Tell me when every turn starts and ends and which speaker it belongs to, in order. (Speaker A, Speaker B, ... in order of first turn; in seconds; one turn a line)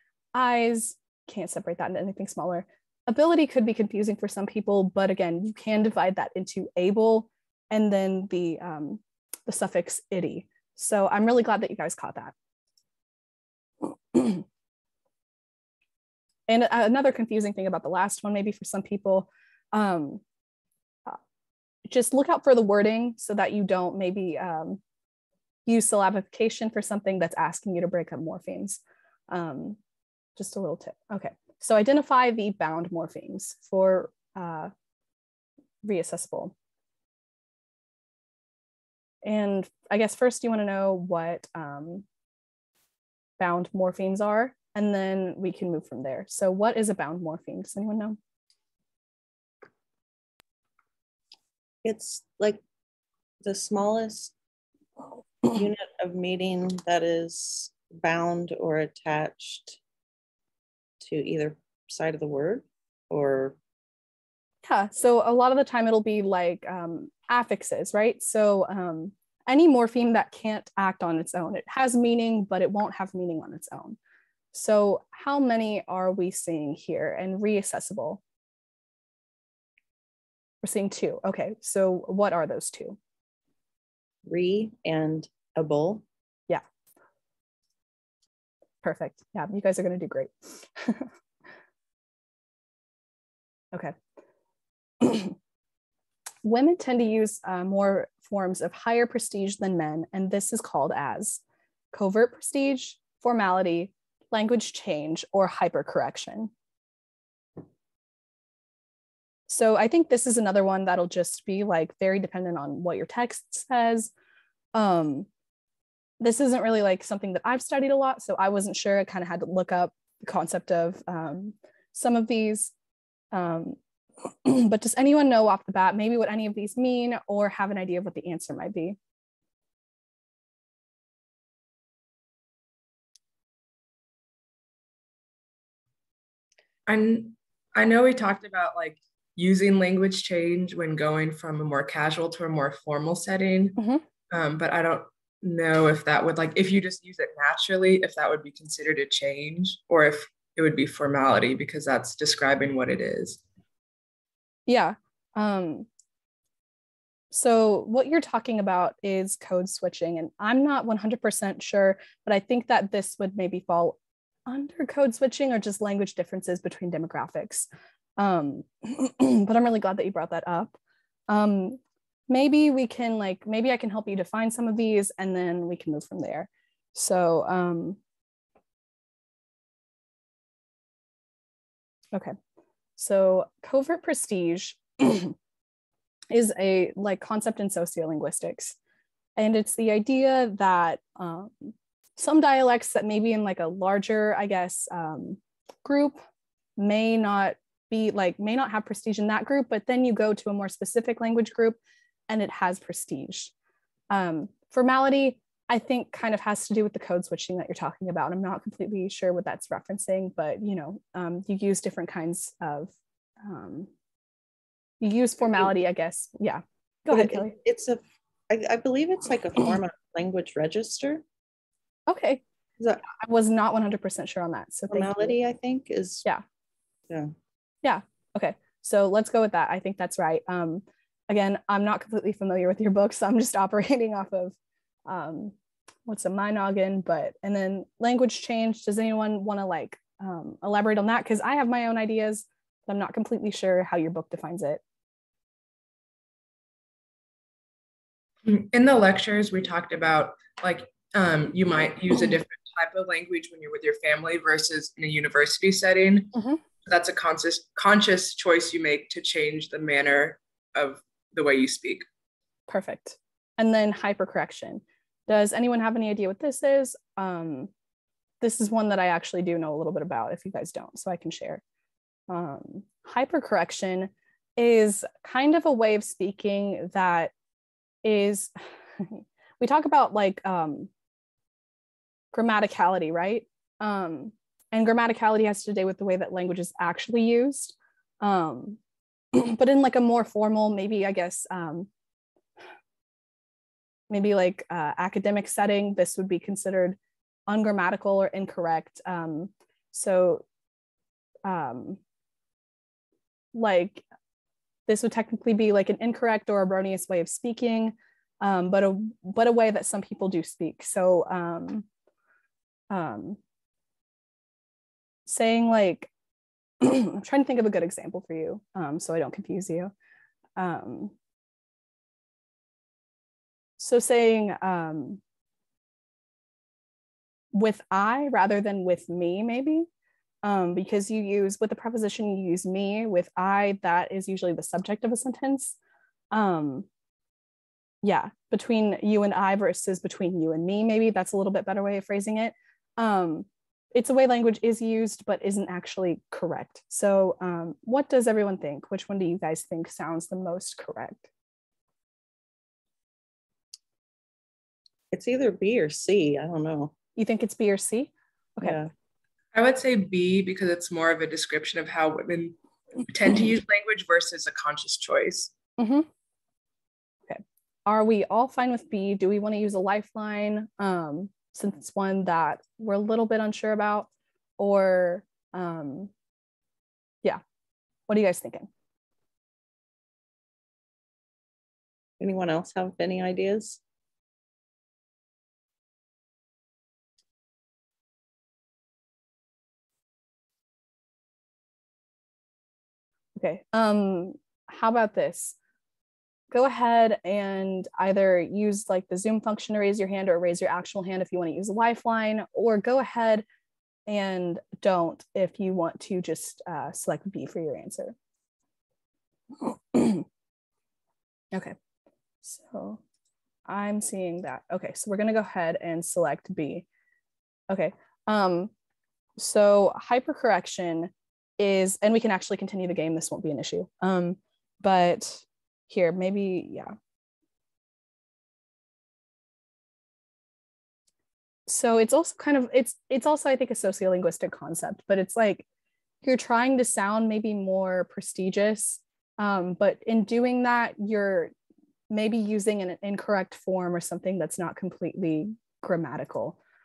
Speaker A: 0.3-12.3
Speaker A: 14.1-14.4
Speaker A: 16.5-20.2
Speaker A: 21.9-24.8
Speaker A: 25.7-29.8
Speaker A: 30.4-34.7
Speaker A: 35.8-36.5
Speaker A: 39.2-42.0
Speaker A: 43.4-48.2
Speaker B: 51.8-52.6
Speaker B: 53.4-54.3
Speaker B: 55.5-59.8
Speaker B: 61.0-63.6
Speaker A: 64.7-74.0
Speaker A: 74.5-78.2
Speaker A: 80.6-83.0
Speaker B: 84.2-86.0
Speaker A: 88.8-91.1
Speaker A: 95.0-95.4
Speaker A: 96.4-101.4
Speaker A: 101.9-106.5
Speaker A: 109.5-114.1
Speaker A: 114.7-115.3
Speaker A: 116.2-122.7
Speaker A: 123.3-123.8
Speaker A: 124.5-129.0
Speaker C: 136.9-143.8
Speaker A: 143.8-144.0
Speaker C: 144.3-153.4
Speaker A: 154.7-155.9
Speaker A: 157.3-167.7
Speaker A: 168.2-170.8
Speaker A: 171.3-178.0
Speaker A: 183.0-185.3
Speaker A: 186.3-188.8
Speaker A: 189.4-196.2
Speaker A: 196.8-201.8
Speaker A: 202.3-203.5
Speaker A: 204.1-213.9
Speaker A: 215.0-217.5
Speaker B: 217.1-221.2
Speaker A: 222.1-222.4
Speaker A: 223.2-225.4
Speaker B: 224.9-226.3
Speaker B: 227.1-227.3
Speaker A: 227.8-234.6
Speaker A: 235.1-235.6
Speaker A: 236.1-244.8
Speaker C: 248.4-256.4
Speaker C: 256.9-262.1
Speaker A: 262.7-267.7
Speaker A: 268.4-271.6
Speaker A: 272.3-277.3
Speaker A: 278.0-280.9
Speaker A: 282.3-288.8
Speaker A: 289.3-291.9
Speaker A: 294.1-297.0
Speaker A: 297.5-300.4
Speaker A: 301.4-302.0
Speaker A: 303.5-304.0
Speaker A: 304.9-311.9
Speaker A: 312.9-313.4
Speaker A: 315.3-316.1
Speaker A: 316.8-319.9
Speaker A: 320.6-321.1
Speaker A: 323.8-325.2
Speaker A: 327.5-329.9
Speaker A: 330.4-335.8
Speaker A: 336.3-336.9
Speaker A: 338.0-351.3
Speaker B: 355.1-356.9
Speaker A: 357.2-358.8
Speaker B: 358.6-358.9
Speaker C: 359.5-362.6
Speaker C: 363.1-365.5
Speaker A: 365.8-366.1
Speaker A: 367.3-376.1
Speaker A: 378.1-378.7
Speaker B: 382.2-383.8
Speaker A: 393.4-395.6
Speaker A: 396.5-403.4
Speaker A: 404.1-408.1
Speaker A: 409.6-410.3
Speaker A: 412.4-413.0
Speaker A: 413.7-416.9
Speaker A: 417.7-418.7
Speaker A: 419.4-426.9
Speaker A: 431.7-435.6
Speaker A: 436.2-441.5
Speaker A: 442.1-446.6